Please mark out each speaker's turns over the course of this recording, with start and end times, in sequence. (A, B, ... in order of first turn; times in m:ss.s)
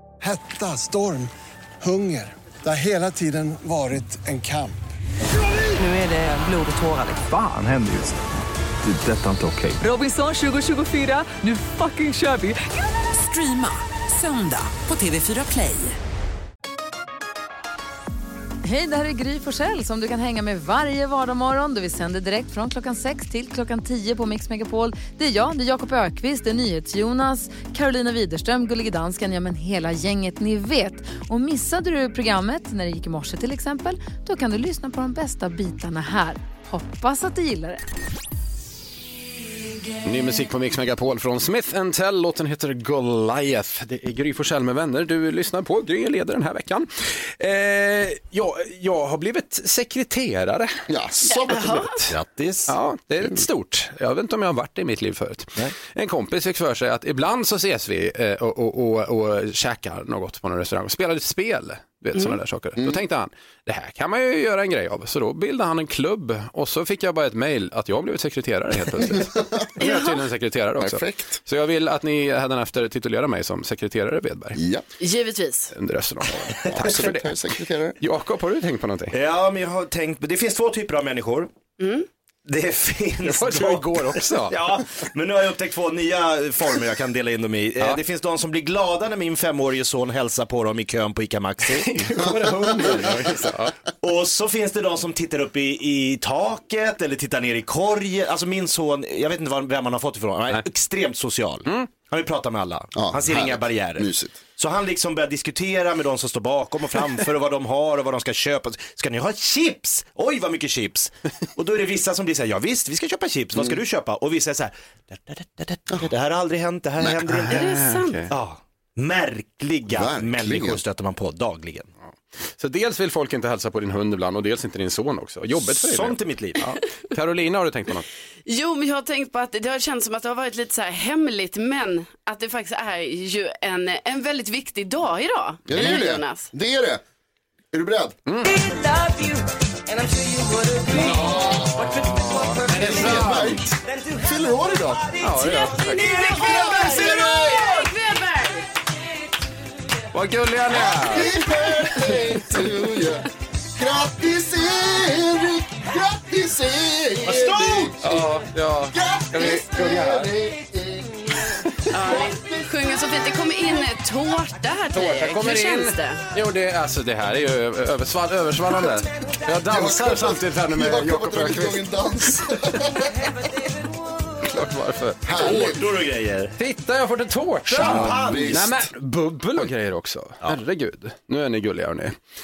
0:00.2-0:01.3 A
0:01.8-0:04.8 A
0:05.8-0:07.2 B
0:06.9-0:08.3 C
0:08.8-0:09.8 C
0:09.8-0:16.0 B
0:18.6-0:37.8 D
0:40.0-0:50.8 E
0:50.9-0:51.8 F
0:51.3-0:52.0 G
0:51.5-0:52.0 E
0:52.1-0:52.7 H
0:52.7-1:14.6 E
1:10.8-1:11.4 F
1:14.5-1:14.8 F
1:15.0-1:15.7 G
1:15.7-1:17.3 E
1:16.7-1:18.0 F
1:18.0-1:19.1 E
1:19.1-1:21.5 H
1:21.8-1:22.1 G
1:22.5-1:32.0 H
1:23.2-1:24.6 E
1:31.7-1:33.7 E
1:34.0-1:57.7 H
1:43.0-1:44.4 F
1:57.5-1:58.3 E
1:57.5-1:58.2 G
1:58.3-2:01.9 H
1:59.9-2:00.8 F
2:02.6-2:08.1 E
2:05.6-2:06.7 H
2:08.5-2:16.5 G
2:15.7-2:17.0 F
2:17.7-2:18.2 F
2:18.3-2:18.6 E
2:18.5-2:21.4 B
2:21.0-2:23.7 E
2:21.1-2:21.9 F
2:22.2-2:22.7 B
2:22.7-2:25.1 F
2:23.9-2:26.8 H
2:25.2-2:26.1 E
2:25.9-2:28.7 G
2:26.3-2:27.8 F
2:30.1-2:31.3 E
2:30.7-2:38.4 F
2:37.3-2:37.9 H
2:38.0-2:40.3 E
2:38.9-2:42.9 F
2:41.9-2:46.2 G
2:44.9-2:51.8 E
2:49.7-2:53.2 F
2:54.4-2:55.7 E
2:55.2-2:55.8 F
2:55.4-2:56.5 H
2:56.6-3:02.2 E
2:57.7-2:58.7 H
2:57.8-2:58.9 F